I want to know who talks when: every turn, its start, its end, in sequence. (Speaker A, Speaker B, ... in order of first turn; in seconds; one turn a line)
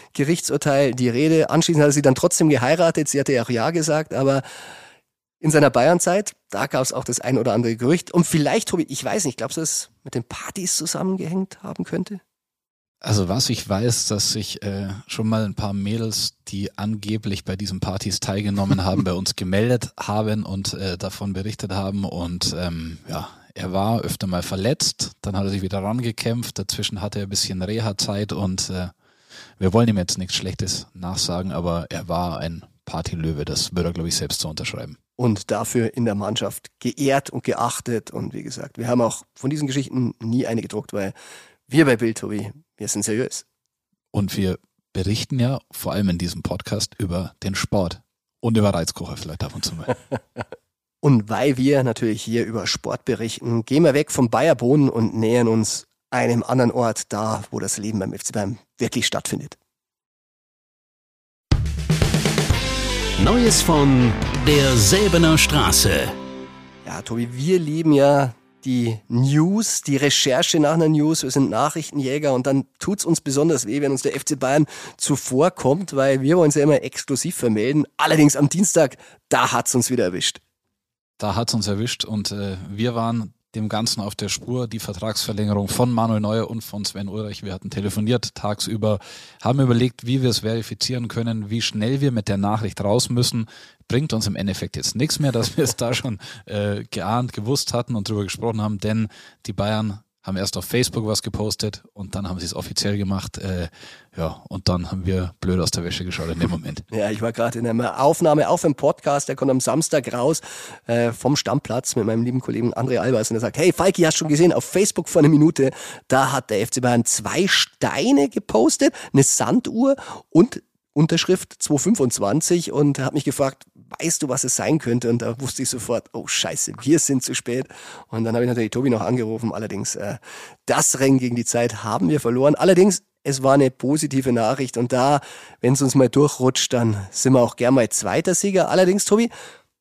Speaker A: 0.1-4.4
Speaker A: 5.4-12.2
Speaker B: 13.0-28.9
Speaker B: 29.6-35.0
Speaker A: 35.2-41.1
Speaker A: 41.7-43.5
Speaker B: 44.1-50.0
Speaker A: 51.0-59.6
Speaker C: 63.2-66.2
Speaker A: 66.8-80.4
Speaker B: 81.2-106.8
Speaker A: 106.9-139.3